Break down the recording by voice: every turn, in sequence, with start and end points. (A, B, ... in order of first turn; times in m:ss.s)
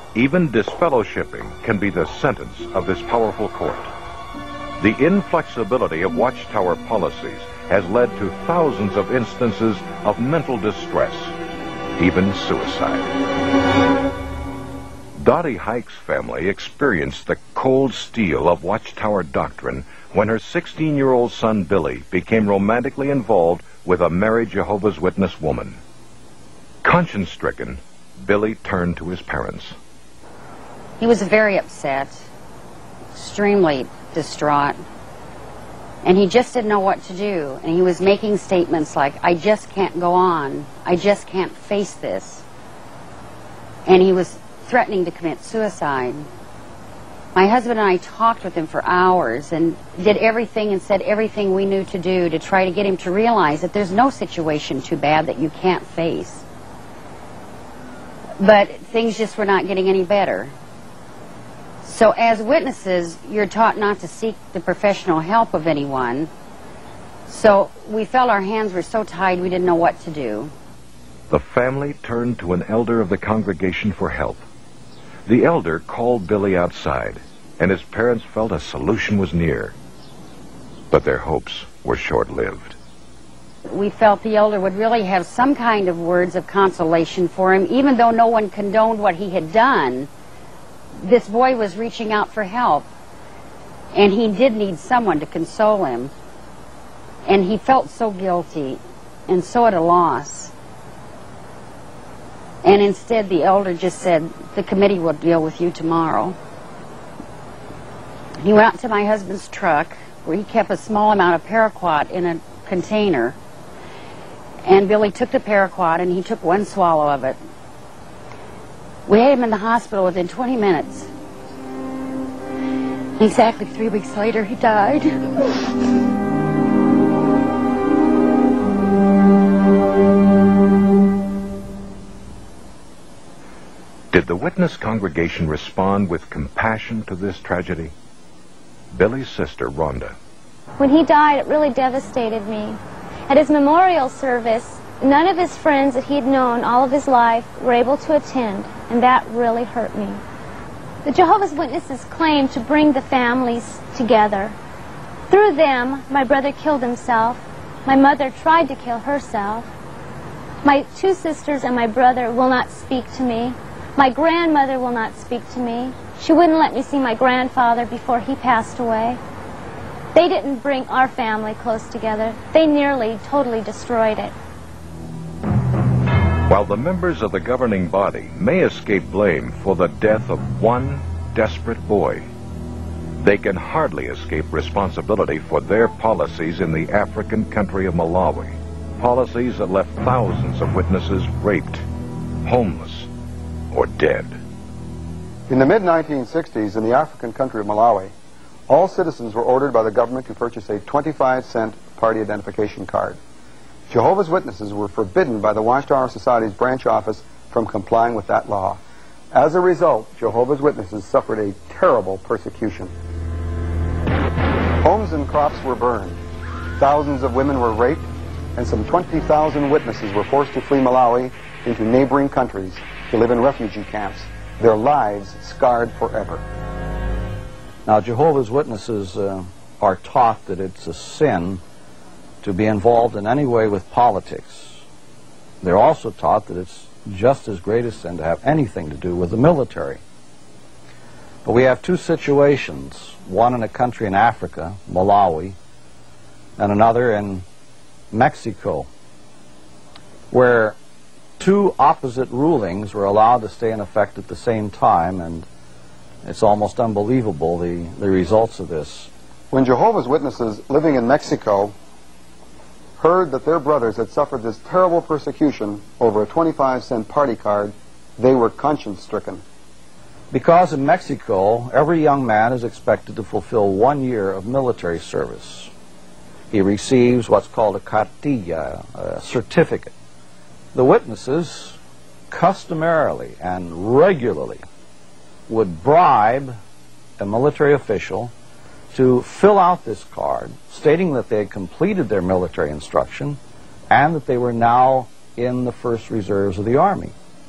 0:00.2-0:03.9 A
0:04.8-0:11.3 A
0:12.0-0:13.1 A
0:15.2-0:25.8 A
0:26.8-0:29.8 A
0:31.0-0:32.2 B
0:33.1-0:34.8 B
0:36.0-0:42.4 B
0:43.9-0:46.3 B
0:47.4-0:56.4 B
0:58.4-1:00.5 B
1:01.8-1:06.3 B
1:07.3-1:10.5 B
1:11.3-1:14.4 A
1:15.3-1:19.7 A
1:20.9-1:22.8 A
1:23.7-1:30.1 B
1:31.0-1:32.9 B
1:33.9-1:36.1 B
1:37.3-1:40.5 B
1:42.6-1:46.4 B
1:48.4-1:53.4 B
1:54.6-1:57.4 B
1:59.1-2:01.1 B
2:03.2-2:05.2 B
2:14.1-2:17.9 A
2:18.9-2:20.2 A
2:20.8-2:30.2 C
2:31.0-2:34.6 C
2:35.3-2:39.7 C
2:40.6-2:49.2 C
2:50.1-2:54.3 C
2:56.5-3:02.3 A
3:03.2-3:11.8 A
3:12.4-3:13.1 A
3:13.7-3:14.4 A
3:15.5-3:18.1 D
3:18.7-3:23.2 D
3:23.9-3:28.8 D
3:29.3-3:32.9 D
3:34.8-3:36.2 D
3:36.8-3:38.0 D
3:38.6-3:46.4 D
3:47.9-3:51.6 E
3:52.4-3:54.8 E
3:55.6-4:00.0 E
4:01.4-4:05.6 E
4:06.6-4:07.4 E
4:08.1-4:08.9 E
4:10.3-4:10.8 E
4:11.4-4:15.5 E
4:16.2-4:19.1 E
4:19.5-4:21.7 D
4:23.0-4:29.4 D
4:30.3-4:35.7 E
4:36.5-4:39.9 E
4:40.7-4:41.8 E
4:42.3-4:44.6 E
4:45.5-4:46.6 E
4:47.2-4:48.3 E
4:48.9-4:53.4 E
4:53.9-4:57.1 E